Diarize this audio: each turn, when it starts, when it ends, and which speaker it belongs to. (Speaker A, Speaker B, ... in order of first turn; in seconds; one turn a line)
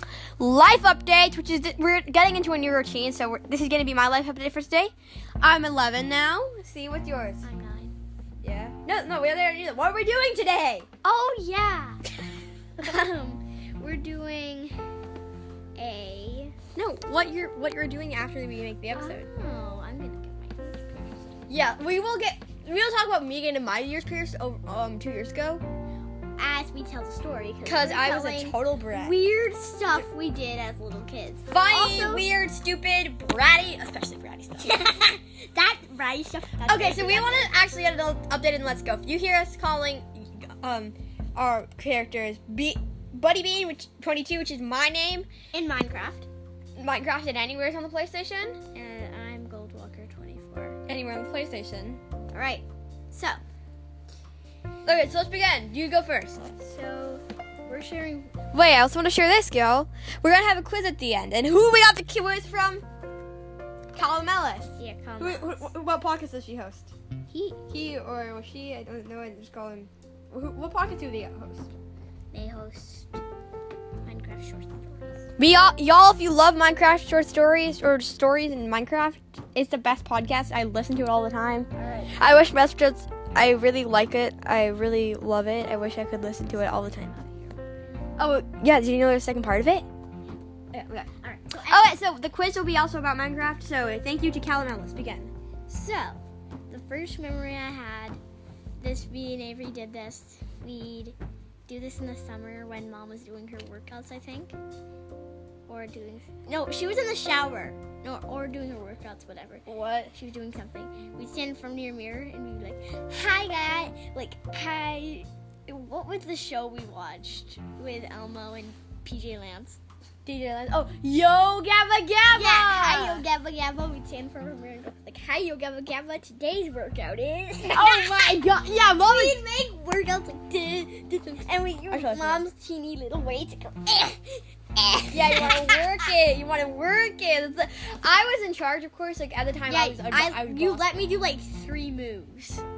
Speaker A: 0.4-7.4
Speaker B: 7.4-7.9
Speaker A: 8.4-10.9
Speaker B: 11.0-12.0
Speaker B: 12.8-14.8
Speaker B: 15.8-16.5
Speaker A: 16.7-19.3
Speaker B: 18.9-21.4
Speaker A: 21.5-25.6
Speaker B: 26.4-32.3
Speaker A: 27.6-29.3
Speaker A: 31.5-34.8
Speaker B: 34.6-37.6
Speaker A: 36.6-45.3
Speaker B: 45.5-46.3
Speaker A: 46.8-48.6
Speaker B: 48.7-50.8
Speaker A: 50.9-52.0
Speaker B: 52.3-53.4
Speaker A: 54.8-56.5
Speaker B: 56.6-58.3
Speaker A: 58.5-62.8
Speaker A: 63.9-66.9
Speaker B: 64.8-65.7
Speaker B: 67.3-67.6
Speaker A: 67.7-71.7
Speaker B: 72.3-73.2
Speaker B: 74.0-75.2
Speaker A: 75.4-87.1
Speaker B: 81.7-82.1
Speaker B: 86.5-87.6
Speaker A: 88.2-89.8
Speaker A: 90.7-91.1
Speaker B: 91.2-92.0
Speaker A: 91.7-95.3
Speaker B: 95.7-96.2
Speaker B: 96.7-98.2
Speaker B: 98.8-101.2
Speaker B: 101.7-104.5
Speaker B: 105.7-119.8
Speaker A: 109.7-110.1
Speaker A: 120.2-123.2
Speaker B: 122.3-136.0
Speaker A: 127.7-129.4
Speaker A: 131.3-132.5
Speaker A: 135.1-140.9
Speaker B: 139.7-142.6